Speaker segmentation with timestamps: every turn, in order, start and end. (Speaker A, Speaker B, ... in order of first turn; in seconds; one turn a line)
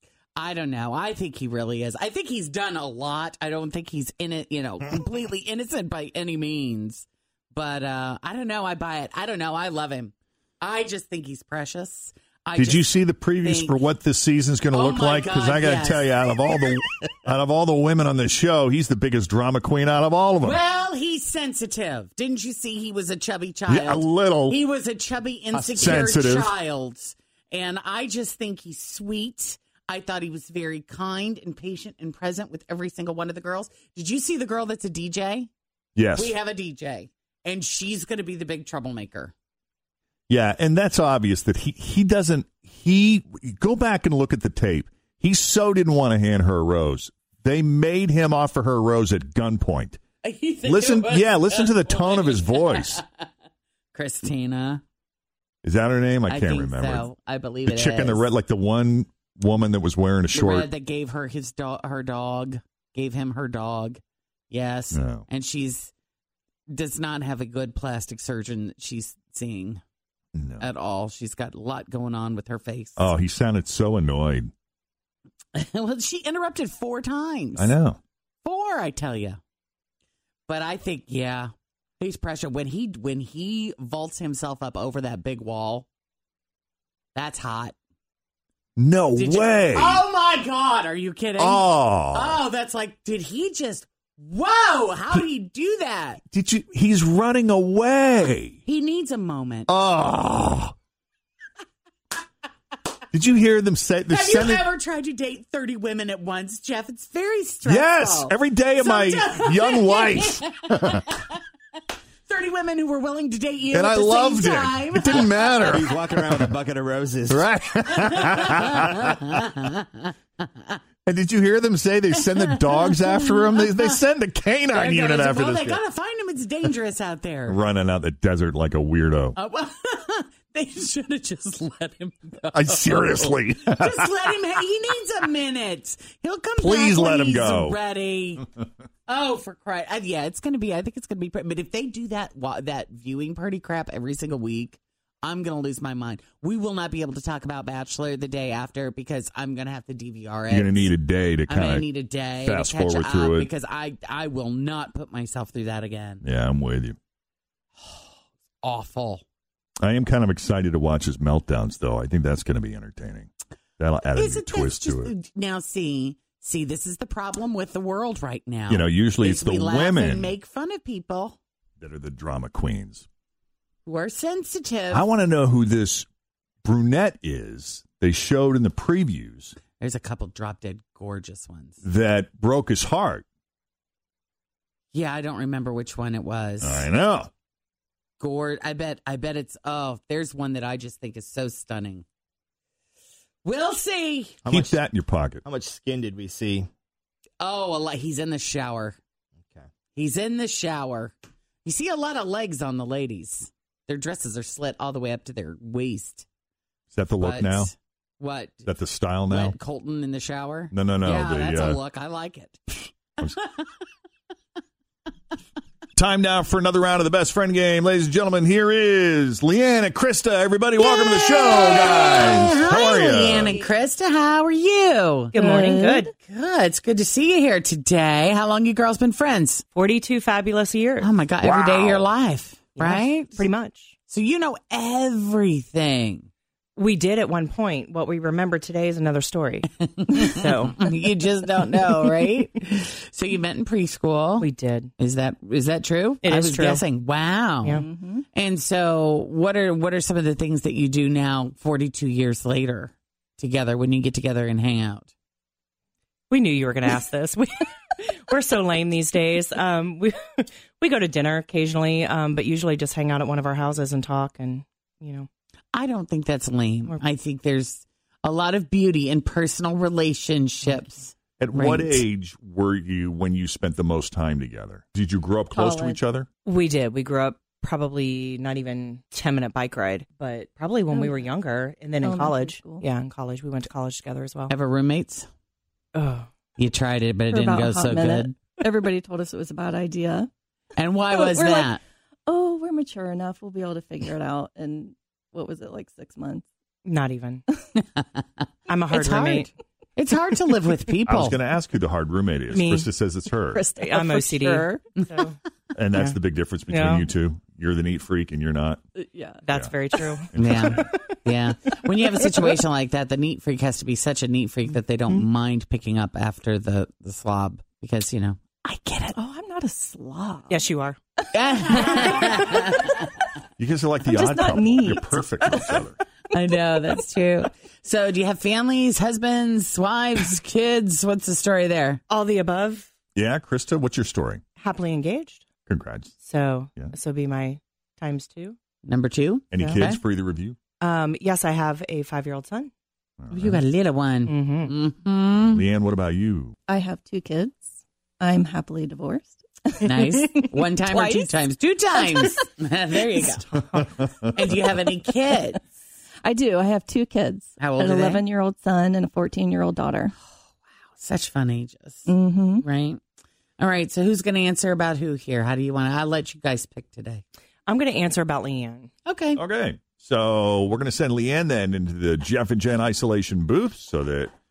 Speaker A: 0.3-12.9
Speaker B: 12.6-20.6
Speaker A: 13.4-13.8
Speaker A: 14.7-16.1
Speaker A: 20.4-35.5
Speaker B: 23.7-24.6
Speaker B: 25.5-26.5
Speaker B: 36.0-36.3
Speaker A: 36.1-39.3
Speaker B: 40.3-50.0
Speaker A: 50.2-53.2
Speaker B: 50.6-53.0
Speaker A: 53.9-54.8
Speaker B: 55.6-57.1
Speaker A: 56.3-58.2
Speaker B: 57.6-60.7
Speaker A: 60.3-65.9
Speaker B: 64.9-65.2
Speaker A: 66.7-69.8
Speaker B: 70.3-70.7
Speaker A: 70.6-73.1
Speaker B: 73.0-74.5
Speaker A: 75.5-77.7
Speaker B: 77.5-78.0
Speaker A: 78.4-79.4
Speaker A: 80.5-85.8
Speaker A: 87.1-87.7
Speaker B: 88.8-90.0
Speaker A: 89.2-96.2
Speaker B: 91.4-92.4
Speaker B: 96.3-98.6
Speaker A: 98.7-99.7
Speaker B: 99.7-100.7
Speaker B: 103.1-104.7
Speaker A: 104.1-111.3
Speaker B: 107.6-111.0
Speaker A: 112.3-115.8
Speaker B: 113.7-116.5
Speaker C: 115.7-117.5
Speaker B: 117.3-119.2
Speaker A: 118.0-120.1
Speaker B: 121.0-125.8
Speaker A: 122.2-124.0
Speaker A: 124.7-127.6
Speaker B: 127.5-129.4
Speaker A: 129.3-138.4
Speaker B: 132.5-134.1
Speaker B: 136.6-137.8
Speaker A: 139.1-150.9
Speaker B: 150.5-151.9
Speaker A: 151.5-156.2
Speaker B: 152.4-153.5
Speaker B: 156.2-156.9
Speaker A: 157.8-158.1
Speaker A: 158.6-159.2
Speaker B: 159.8-165.1
Speaker A: 164.1-171.4
Speaker B: 168.7-170.3
Speaker B: 171.8-173.0
Speaker A: 173.8-175.0
Speaker B: 174.9-176.1
Speaker B: 176.6-179.6
Speaker A: 179.8-181.8
Speaker B: 181.8-183.2
Speaker A: 184.9-186.9
Speaker B: 186.6-187.3
Speaker A: 188.2-192.0
Speaker A: 193.4-194.4
Speaker C: 194.4-194.8
Speaker B: 194.5-195.4
Speaker C: 195.4-196.7
Speaker A: 197.4-199.0
Speaker A: 199.9-206.2
Speaker B: 206.9-207.7
Speaker A: 207.2-208.7
Speaker B: 208.7-209.6
Speaker A: 209.3-212.6
Speaker B: 210.7-211.8
Speaker A: 213.2-213.7
Speaker B: 215.9-223.6
Speaker A: 220.8-225.3
Speaker D: 225.3-226.1
Speaker E: 225.3-226.1
Speaker A: 226.2-229.6
Speaker E: 229.7-231.1
Speaker A: 231.0-233.5
Speaker B: 231.4-232.1
Speaker E: 232.8-233.9
Speaker A: 234.1-236.3
Speaker E: 236.8-240.8
Speaker A: 240.0-255.1
Speaker E: 244.4-244.9
Speaker E: 246.2-246.8
Speaker D: 247.7-248.2
Speaker E: 256.3-265.3
Speaker A: 265.7-272.0
Speaker B: 271.4-276.3
Speaker D: 275.5-276.0
Speaker E: 276.4-284.5
Speaker D: 280.9-281.3
Speaker D: 282.0-282.9
Speaker A: 284.5-285.3
Speaker E: 285.9-286.3
Speaker A: 286.6-288.4
Speaker D: 287.3-290.3
Speaker A: 290.8-291.8
Speaker D: 291.1-296.4
Speaker E: 296.8-297.4
Speaker E: 298.7-299.5
Speaker A: 298.9-301.4
Speaker B: 301.1-303.6
Speaker E: 302.5-302.9
Speaker D: 303.5-304.8
Speaker E: 303.8-305.4
Speaker B: 305.7-308.8
Speaker E: 305.9-307.1
Speaker D: 308.9-309.4
Speaker E: 309.4-310.3
Speaker B: 310.3-310.8
Speaker A: 310.3-319.1
Speaker D: 319.1-320.6
Speaker E: 320.5-321.0
Speaker A: 321.3-322.9
Speaker D: 321.7-323.0
Speaker B: 323.6-325.9
Speaker D: 324.0-325.8
Speaker A: 326.3-332.0
Speaker E: 332.1-332.9
Speaker B: 333.1-334.4
Speaker E: 334.6-335.4
Speaker B: 335.7-336.1
Speaker E: 336.2-338.6
Speaker A: 338.8-340.0
Speaker B: 339.5-340.6
Speaker E: 340.8-342.7
Speaker B: 343.2-343.6
Speaker A: 343.3-345.6
Speaker E: 344.3-344.7
Speaker B: 345.5-346.5
Speaker D: 346.7-351.4
Speaker A: 349.8-353.5
Speaker D: 352.0-352.4
Speaker B: 354.0-354.3
Speaker A: 354.3-355.6
Speaker D: 356.2-360.1
Speaker A: 357.6-358.2
Speaker A: 361.0-362.1
Speaker D: 362.1-362.6
Speaker A: 362.6-363.0
Speaker A: 363.6-367.2
Speaker E: 367.7-368.9
Speaker A: 369.1-369.4
Speaker B: 369.3-374.3